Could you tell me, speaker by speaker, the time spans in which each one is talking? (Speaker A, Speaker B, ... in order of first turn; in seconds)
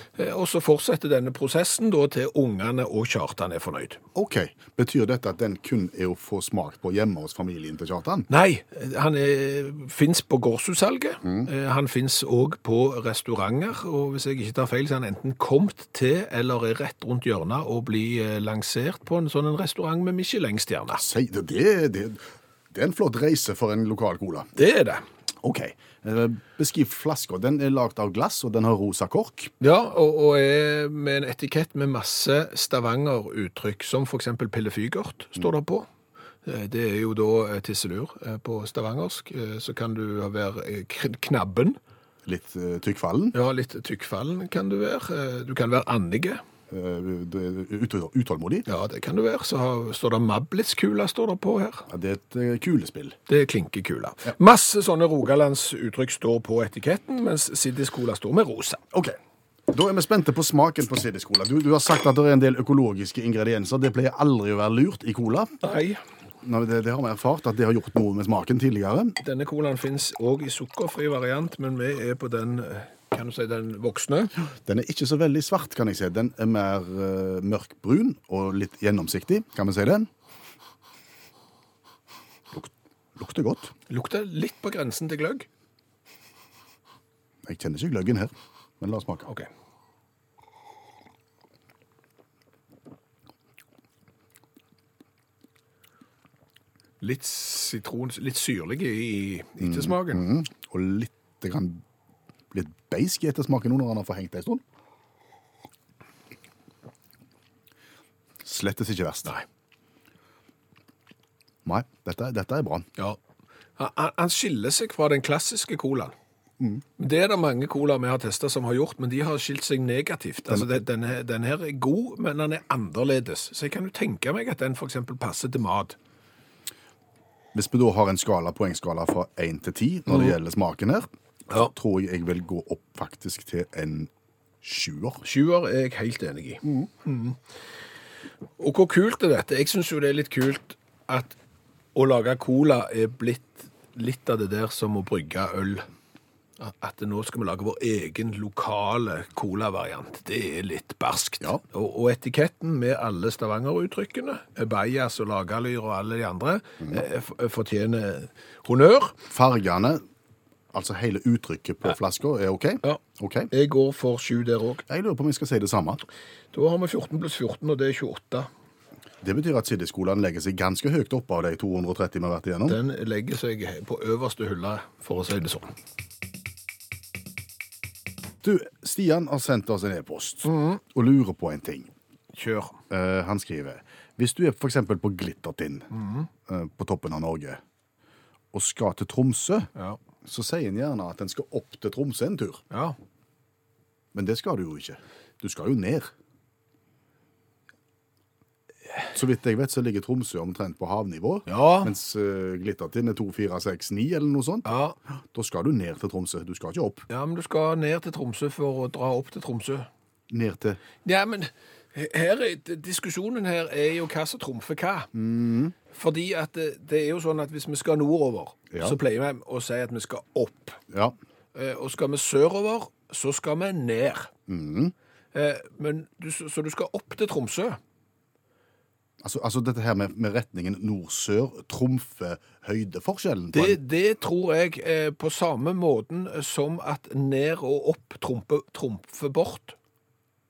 Speaker A: 0.2-4.0, 8.3-21.0, 24.6-25.1, 29.6-35.9, 36.5-41.8, 43.3-46.4, 48.7-51.9, 53.3-58.8, 65.6-66.0, 69.2-74.3, 83.9-85.5, 97.0-100.2, 113.8-116.1, 117.0-126.0, 130.1-130.3, 135.2-137.4, 138.6-141.4, 141.9-145.9, 146.6-159.2, 162.8-164.8, 166.5-168.5, 172.7-175.7, 180.4-180.8, 182.3-182.8, 185.9-186.3, 189.8-190.0, 192.7-193.0, 201.5-201.9, 204.7-205.0, 207.1-209.9, 211.0-215.1, 215.9-220.8, 221.5-224.3, 225.3-227.8, 233.5-239.8
Speaker B: 4.2-8.3, 11.2-11.5, 21.0-22.2, 22.7-24.5, 25.4-29.5, 42.2-43.4, 46.7-48.7, 51.9-53.2, 59.7-65.5, 66.4-69.2, 74.6-80.1, 82.5-83.7, 87.5-89.3, 99.6-101.8, 102.5-104.6, 108.4-109.4, 111.7-112.9, 127.5-134.1, 134.6-135.2, 159.3-160.0, 160.7-163.5, 164.9-166.0, 169.2-172.8, 178.4-181.9, 182.9-185.9, 186.5-187.6, 188.5-189.7, 190.2-192.6, 194.1-196.1, 199.1-204.7, 205.3-207.1, 210.3-210.8, 215.1-215.8, 218.7-219.0, 220.9-221.2, 224.5-224.9, 229.2-233.8